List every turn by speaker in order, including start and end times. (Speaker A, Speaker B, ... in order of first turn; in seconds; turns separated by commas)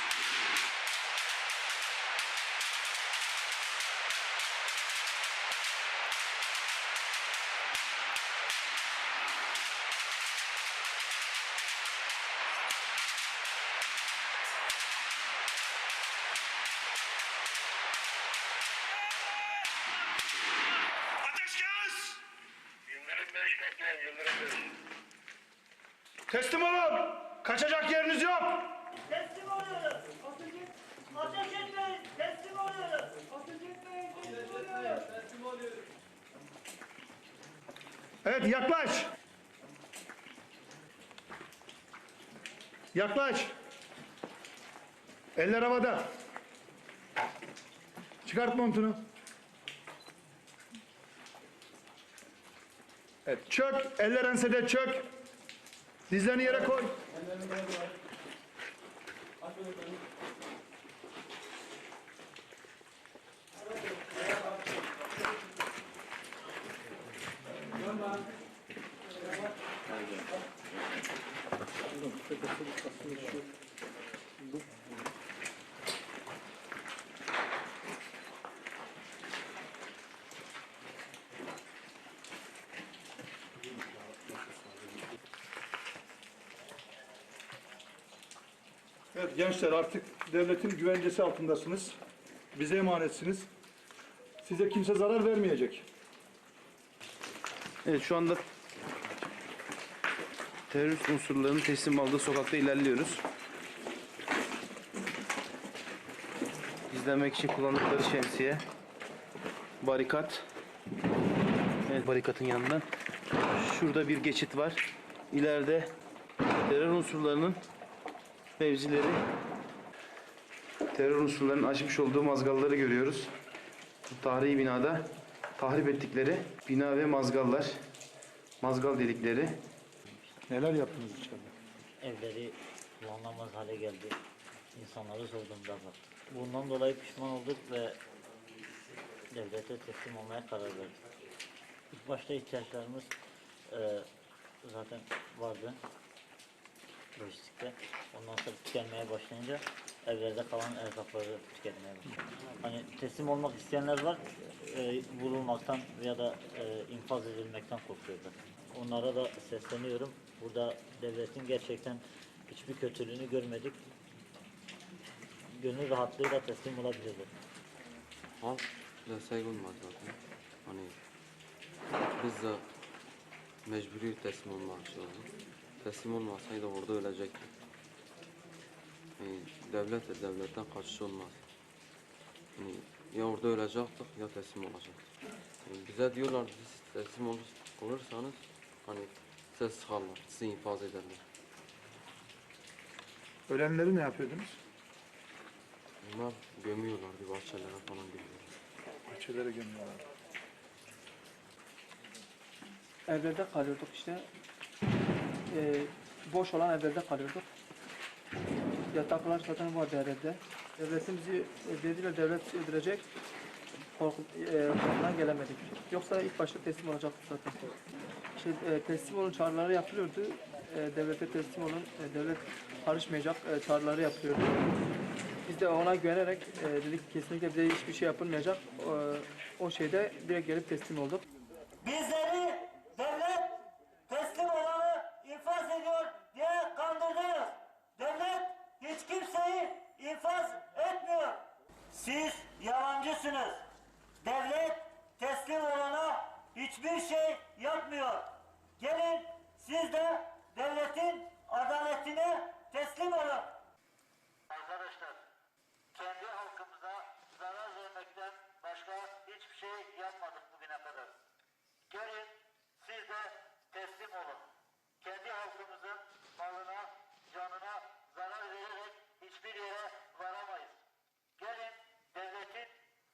Speaker A: 21.2-22.2, Speaker A: 26.3-28.7, Speaker B: 28.9-35.0, Speaker A: 38.2-39.1, Speaker A: 42.9-43.5, Speaker A: 45.4-46.1, Speaker A: 48.2-49.0, Speaker A: 53.3-55.0, Speaker A: 56.1-57.0, Speaker A: 89.1-92.0, Speaker A: 92.5-93.5, Speaker A: 94.4-95.8, Speaker C: 97.8-98.4, Speaker C: 100.7-103.2, Speaker C: 106.9-108.7, Speaker C: 109.8-110.4, Speaker C: 111.9-112.9, Speaker C: 113.5-115.9, Speaker C: 116.6-117.6, Speaker C: 118.6-119.2, Speaker C: 120.9-123.3, Speaker C: 124.1-127.8, Speaker C: 128.6-129.6, Speaker A: 130.5-131.5, Speaker D: 132.0-134.2, Speaker D: 134.7-138.0, Speaker D: 139.3-141.0, Speaker D: 141.9-143.1, Speaker D: 143.7-144.1, Speaker D: 144.6-145.8, Speaker D: 147.2-163.8, Speaker D: 165.5-167.3, Speaker E: 168.4-170.9, Speaker E: 172.2-172.6, Speaker E: 173.7-175.3, Speaker E: 175.8-177.5, Speaker E: 179.2-181.4, Speaker E: 182.6-185.0, Speaker E: 185.7-191.2, Speaker A: 193.5-194.6, Speaker E: 196.0-198.5, Speaker A: 199.1-200.0, Speaker F: 203.1-204.2, Speaker F: 205.5-207.4, Speaker F: 208.9-213.1, Speaker F: 213.9-217.7, Speaker F: 218.4-224.6, Speaker F: 225.5-231.2, Speaker B: 231.8-233.5, Speaker B: 234.1-243.6, Speaker B: 244.2-253.5, Speaker B: 254.5-255.2, Speaker B: 255.9-261.1, Speaker B: 261.9-264.4, Speaker B: 265.0-270.8, Speaker B: 271.4-272.7